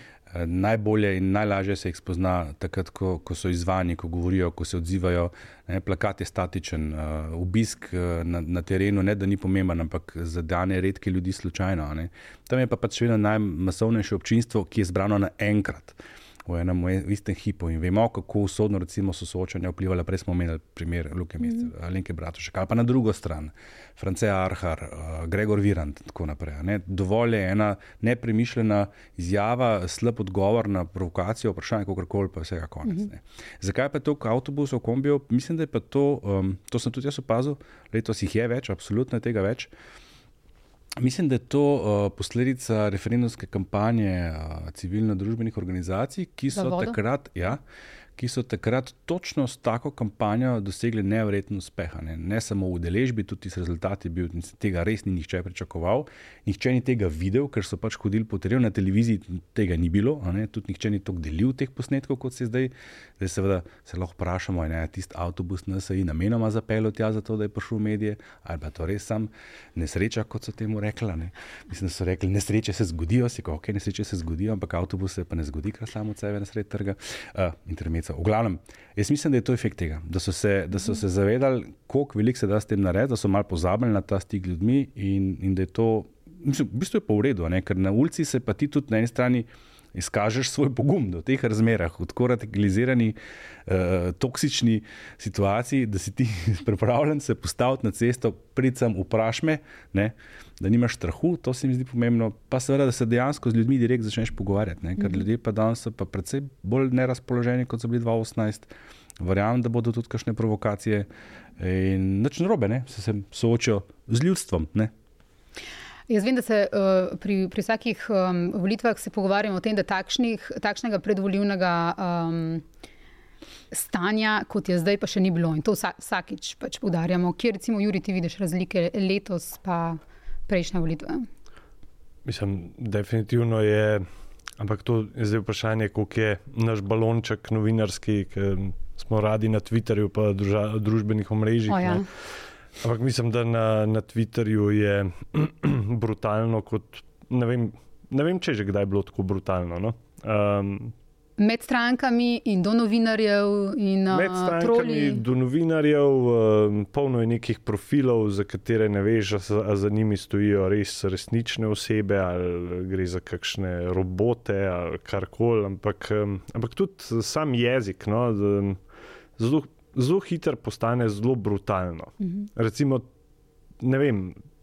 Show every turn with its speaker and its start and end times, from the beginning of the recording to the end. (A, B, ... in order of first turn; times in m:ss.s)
0:00.3-0:39.7 A
0:41.0-0:47.6 A
0:46.5-0:47.0 B
0:48.2-1:51.1 A
1:51.6-1:54.9 A
1:56.1-2:02.6 B
2:03.7-2:11.3 B
2:12.2-2:14.1 C
2:14.6-2:30.9 C
2:21.7-2:22.0 B
2:31.4-2:35.2 B
2:34.1-2:48.8 C
2:49.4-2:53.1 C
2:53.8-2:54.4 C